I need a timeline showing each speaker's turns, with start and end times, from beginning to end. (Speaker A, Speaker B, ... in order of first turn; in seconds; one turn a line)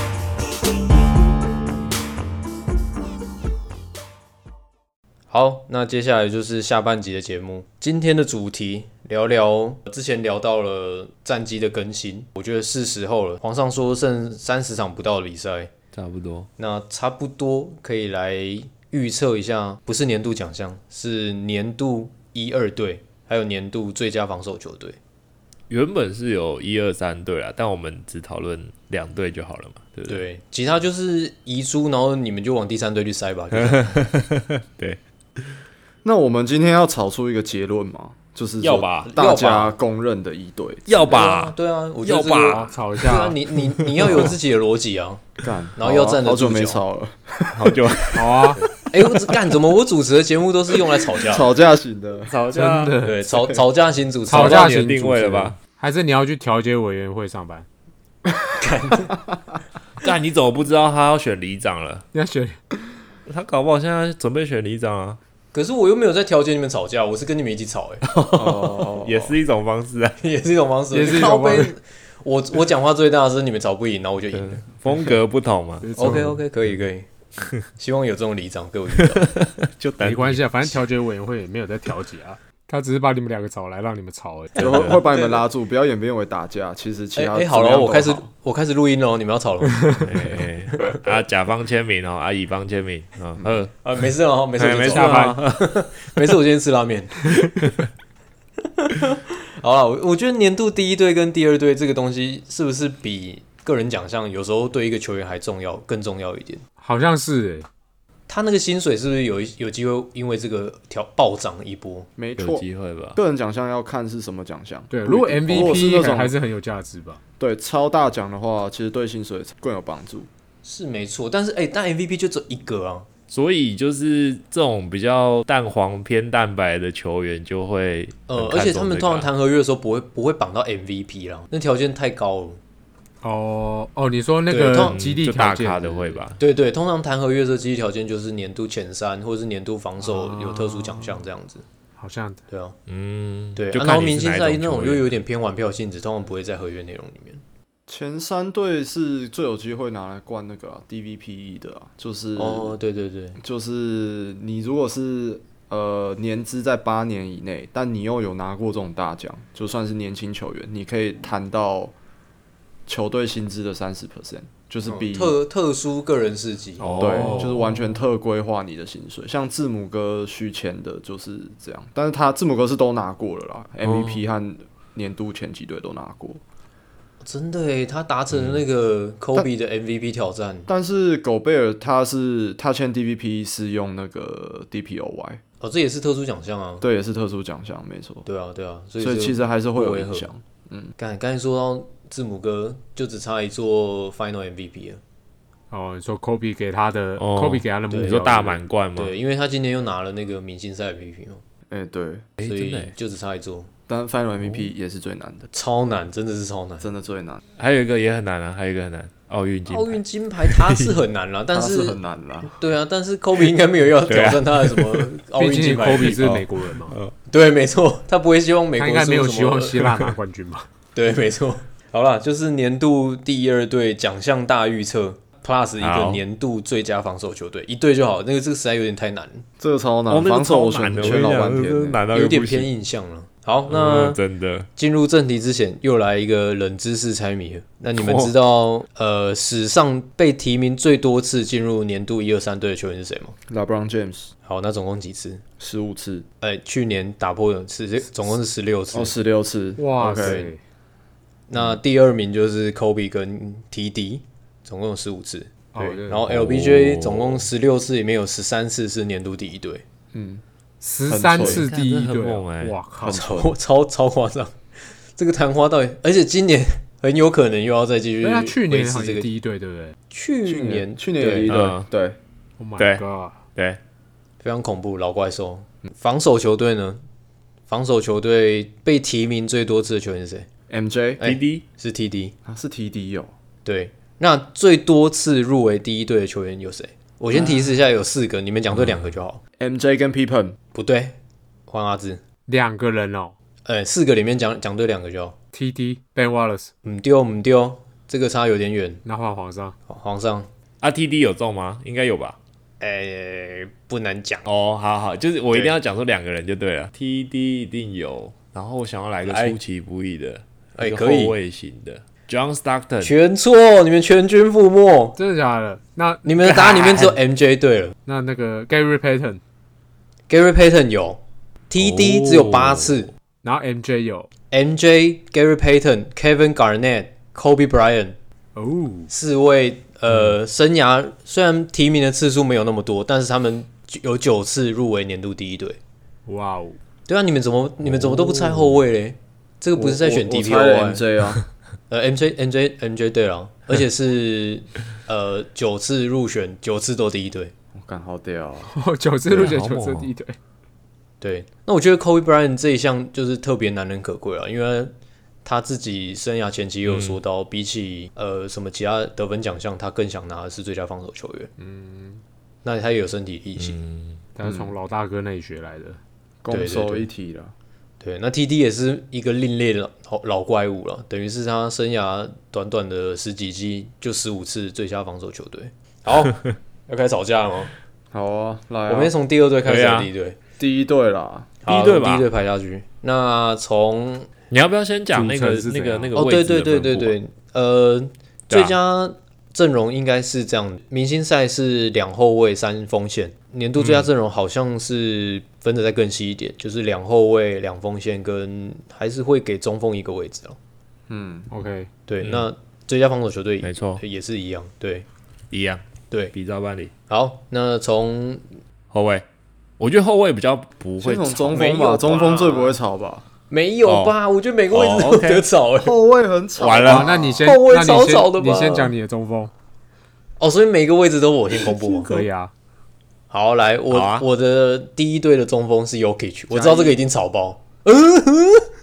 Speaker A: 5.3-15.7
Speaker B: 15.9-16.5
Speaker A: 16.6-25.0
Speaker B: 25.7-30.2
Speaker A: 30.1-33.9
Speaker B: 33.5-35.6
Speaker C: 36.0-41.1
Speaker B: 38.6-39.1
Speaker A: 39.0-39.7
Speaker B: 40.9-42.7
Speaker A: 41.1-46.8
Speaker D: 42.5-43.4
Speaker B: 43.8-44.3
Speaker C: 45.4-48.4
Speaker B: 47.5-48.6
Speaker D: 48.1-48.6
Speaker A: 48.7-51.5
Speaker C: 51.1-52.3
Speaker B: 52.3-53.1
Speaker D: 52.5-53.2
Speaker A: 53.0-54.8
Speaker B: 54.3-55.6
Speaker D: 54.3-57.7
Speaker A: 58.6-59.1
Speaker C: 59.1-59.6
Speaker B: 60.0-62.1
Speaker D: 62.1-62.6
Speaker B: 63.3-65.2
Speaker A: 65.5-68.0
Speaker B: 68.0-70.2
Speaker C: 68.2-69.4
Speaker A: 70.2-74.7
Speaker D: 70.9-71.7
Speaker B: 74.4-76.2
Speaker D: 75.8-76.4
Speaker A: 76.0-77.1
Speaker A: 77.7-79.3
Speaker B: 79.0-80.8
Speaker D: 80.0-84.9
Speaker C: 84.6-88.3
Speaker B: 84.6-85.0
Speaker A: 84.8-85.4
Speaker A: 87.2-89.9
Speaker B: 90.0-93.8
Speaker A: 93.8-97.3
Speaker B: 94.6-96.1
Speaker D: 94.9-95.4
Speaker B: 97.4-97.9
Speaker A: 98.8-106.6
Speaker D: 106.8-107.7
Speaker A: 108.3-112.1
Speaker C: 112.2-116.4
Speaker B: 112.4-113.2
Speaker D: 114.9-117.2
Speaker C: 117.4-120.3
Speaker A: 120.6-123.1
Speaker B: 123.3-129.3
Speaker A: 128.3-132.6
Speaker D: 133.2-136.2
Speaker A: 134.5-135.0
Speaker B: 134.8-136.4
Speaker A: 136.4-141.6
Speaker D: 140.0-141.2
Speaker D: 142.0-142.4
Speaker A: 142.5-142.8
Speaker B: 142.9-145.1
Speaker A: 143.6-147.4
Speaker C: 147.9-152.8
Speaker A: 152.4-153.4
Speaker C: 153.4-161.9
Speaker C: 162.9-165.3
Speaker A: 164.9-167.6
Speaker B: 166.8-167.6
Speaker C: 167.0-176.4
Speaker B: 173.8-174.2
Speaker A: 177.2-180.7
Speaker B: 178.3-178.6
Speaker C: 180.7-185.4
Speaker A: 185.6-186.8
Speaker C: 186.8-188.3
Speaker A: 188.3-190.3
Speaker C: 189.0-190.9
Speaker A: 191.0-195.0
Speaker D: 195.7-198.6
Speaker B: 197.2-199.1
Speaker A: 197.9-198.2
Speaker A: 199.0-201.4
Speaker C: 201.7-202.3
Speaker B: 202.4-202.9
Speaker A: 202.4-203.7
Speaker C: 203.9-205.5
Speaker A: 205.5-206.8
Speaker C: 206.8-207.4
Speaker B: 207.6-211.0
Speaker A: 209.7-216.3
Speaker C: 211.5-212.6
Speaker B: 214.1-215.1
Speaker D: 215.3-216.9
Speaker B: 216.0-217.1
Speaker A: 217.3-220.1
Speaker D: 218.8-220.7
Speaker A: 220.9-229.4
Speaker B: 225.8-226.2
Speaker C: 229.6-232.0
Speaker B: 230.1-232.7
Speaker A: 232.1-234.2
Speaker B: 233.7-234.7
Speaker A: 234.8-243.4
Speaker B: 238.0-238.3
Speaker C: 243.5-244.3
Speaker A: 244.4-245.4
Speaker C: 245.6-246.3
Speaker A: 246.4-249.1
Speaker C: 248.9-250.5
Speaker D: 249.8-250.6
Speaker A: 250.1-250.5
Speaker A: 251.5-259.8
Speaker D: 255.7-256.3
Speaker B: 256.3-257.4
Speaker C: 260.1-260.4
Speaker D: 260.8-263.2
Speaker C: 261.1-261.7
Speaker B: 261.2-262.8
Speaker C: 263.0-263.6
Speaker A: 263.1-264.6
Speaker A: 265.2-269.3
Speaker D: 268.2-270.0
Speaker A: 270.1-271.7
Speaker C: 270.5-272.2
Speaker B: 271.5-271.9
Speaker D: 272.6-273.4
Speaker B: 272.8-273.0
Speaker A: 274.4-277.0
Speaker A: 277.7-280.5
Speaker C: 280.7-281.2
Speaker A: 281.2-282.4
Speaker B: 281.2-281.6
Speaker C: 282.4-283.3
Speaker A: 283.6-289.4
Speaker D: 287.3-287.7
Speaker B: 288.7-289.1
Speaker C: 289.6-290.6
Speaker A: 290.7-291.2
Speaker A: 291.7-292.2
Speaker D: 292.5-293.3
Speaker A: 293.6-295.4
Speaker D: 295.5-296.7
Speaker A: 296.8-299.0
Speaker D: 299.1-299.8
Speaker A: 299.9-300.5
Speaker B: 300.8-302.4
Speaker A: 302.8-304.4
Speaker B: 304.4-313.1
Speaker A: 309.2-309.6
Speaker A: 310.8-311.4
Speaker A: 313.0-315.2
Speaker D: 315.2-316.2
Speaker A: 316.2-317.9
Speaker B: 316.4-317.2
Speaker D: 318.1-319.4
Speaker A: 320.3-323.1
Speaker B: 321.8-323.0
Speaker D: 323.4-324.3
Speaker A: 324.5-328.2
Speaker D: 328.6-329.1
Speaker A: 329.1-335.8
Speaker D: 336.3-336.8
Speaker A: 337.1-341.0
Speaker D: 338.0-338.6
Speaker C: 339.8-341.4
Speaker A: 341.9-347.5
Speaker C: 347.7-348.7
Speaker D: 348.7-350.4
Speaker B: 349.3-350.1
Speaker A: 351.2-354.9
Speaker A: 355.4-361.5
Speaker B: 356.8-357.2
Speaker D: 361.6-362.2
Speaker A: 362.6-363.8
Speaker B: 363.6-364.2
Speaker D: 364.4-366.0
Speaker C: 364.4-364.8
Speaker C: 366.4-367.5
Speaker A: 366.5-367.1
Speaker A: 368.0-377.7
Speaker C: 378.1-379.1
Speaker A: 378.9-380.4
Speaker B: 379.6-380.1
Speaker C: 380.6-381.6
Speaker A: 381.6-384.3
Speaker B: 381.7-382.3
Speaker B: 384.5-387.1
Speaker D: 385.1-386.1
Speaker A: 386.1-400.6
Speaker B: 388.5-388.8
Speaker B: 393.8-394.1
Speaker C: 401.1-401.5
Speaker D: 401.5-401.9
Speaker A: 402.1-405.1
Speaker B: 402.2-402.5
Speaker B: 403.6-404.0
Speaker B: 405.5-406.9
Speaker A: 407.1-408.5
Speaker B: 408.9-409.2
Speaker B: 409.8-411.5
Speaker C: 411.0-413.2
Speaker A: 411.5-412.8
Speaker A: 413.5-416.0
Speaker B: 413.9-414.1
Speaker B: 414.7-415.4
Speaker C: 415.8-417.5
Speaker B: 416.6-417.1
Speaker D: 416.8-419.5
Speaker A: 417.4-418.9
Speaker A: 420.4-422.1
Speaker D: 421.5-422.5
Speaker A: 423.3-428.7
Speaker B: 423.9-424.3
Speaker C: 426.5-427.0